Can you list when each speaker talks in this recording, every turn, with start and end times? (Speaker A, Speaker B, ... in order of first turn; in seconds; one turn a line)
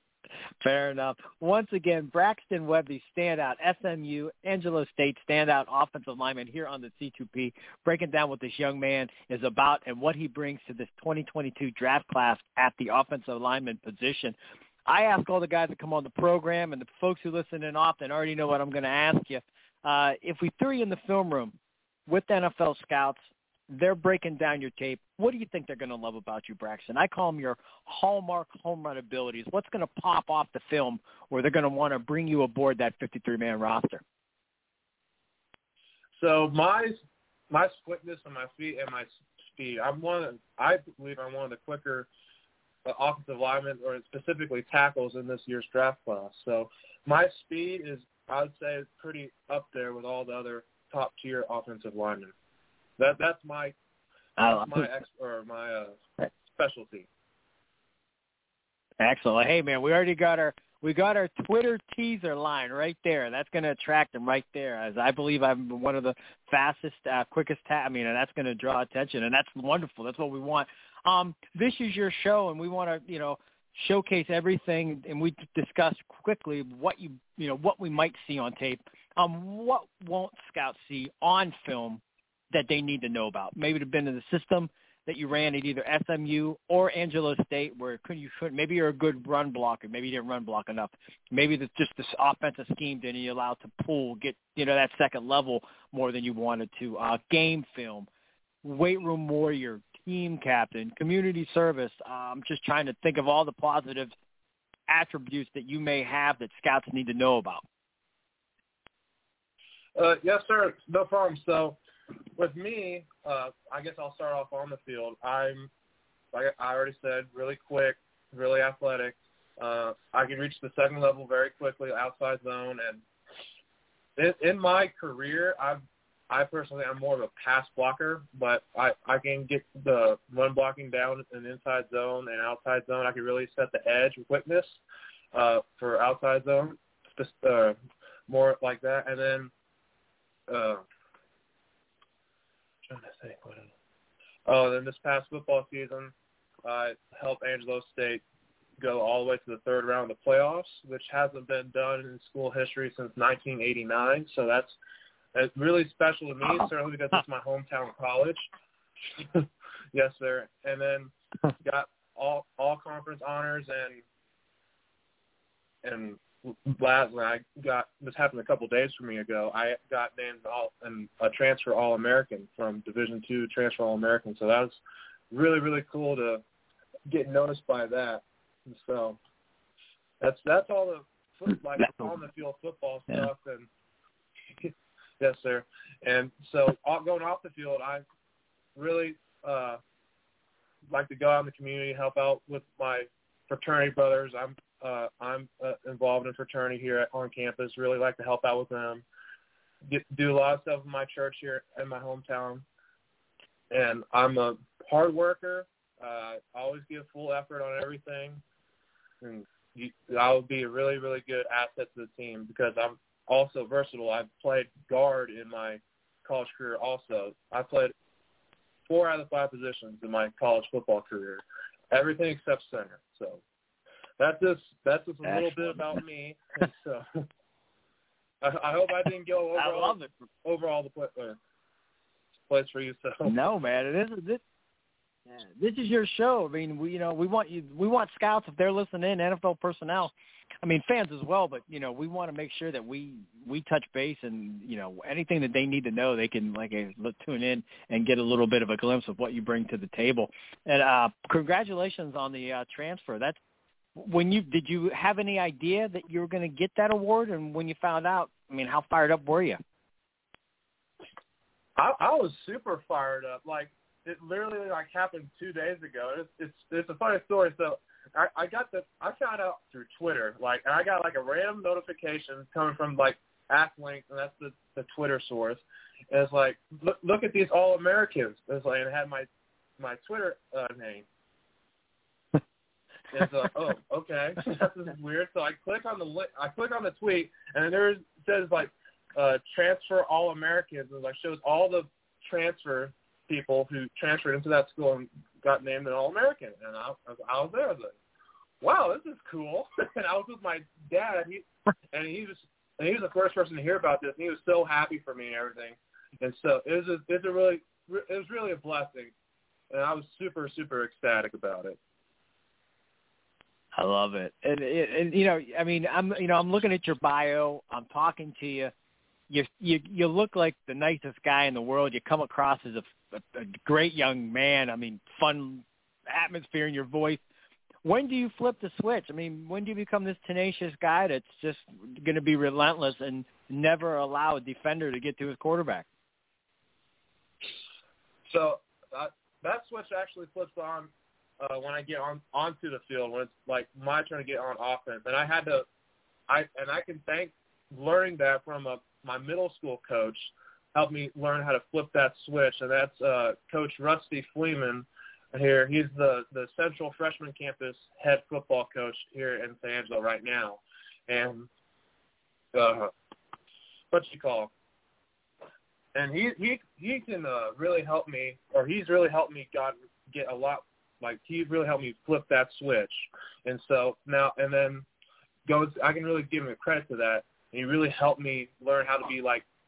Speaker A: 0.6-14.4
Speaker A: 14.9-21.6
Speaker A: 22.1-34.0
Speaker B: 36.2-37.0
Speaker B: 37.5-42.1
Speaker B: 42.9-52.3
Speaker B: 53.0-53.8
Speaker A: 54.4-54.9
Speaker B: 54.4-57.1
Speaker A: 59.0-98.1
Speaker A: 98.6-104.1
Speaker A: 104.9-107.6
Speaker B: 110.0-111.8
Speaker B: 112.4-115.7
Speaker B: 116.3-123.0
Speaker B: 124.2-134.8
Speaker B: 135.3-137.8
Speaker B: 138.3-139.5
Speaker B: 140.5-140.8
Speaker B: 142.9-143.7
Speaker B: 144.5-146.1
Speaker B: 146.7-148.2
Speaker B: 148.8-154.8
Speaker B: 155.3-158.4
Speaker B: 159.2-164.0
Speaker B: 165.8-174.8
Speaker B: 175.3-176.4
Speaker B: 177.1-179.2
Speaker B: 180.2-183.7
Speaker B: 184.6-188.0
Speaker B: 188.8-189.8
Speaker B: 190.9-199.0
Speaker B: 199.9-202.7
Speaker B: 203.7-208.4
Speaker B: 209.2-217.9
Speaker B: 218.9-223.4
Speaker B: 224.2-227.0
Speaker A: 225.2-225.9
Speaker B: 228.4-231.4
Speaker A: 229.6-230.1
Speaker B: 232.5-233.3
Speaker A: 233.2-234.4
Speaker A: 235.3-253.4
Speaker A: 253.9-259.6
Speaker B: 261.8-279.3
Speaker B: 279.8-281.1
Speaker B: 283.1-298.0
Speaker B: 298.6-309.1
Speaker B: 309.7-311.8
Speaker A: 313.8-318.7
Speaker A: 319.3-327.2
Speaker A: 327.8-335.9
Speaker B: 338.3-340.9
Speaker B: 341.4-345.7
Speaker B: 346.3-361.5
Speaker B: 362.6-362.9
Speaker B: 363.9-364.5
Speaker B: 365.9-374.9
Speaker B: 375.5-379.4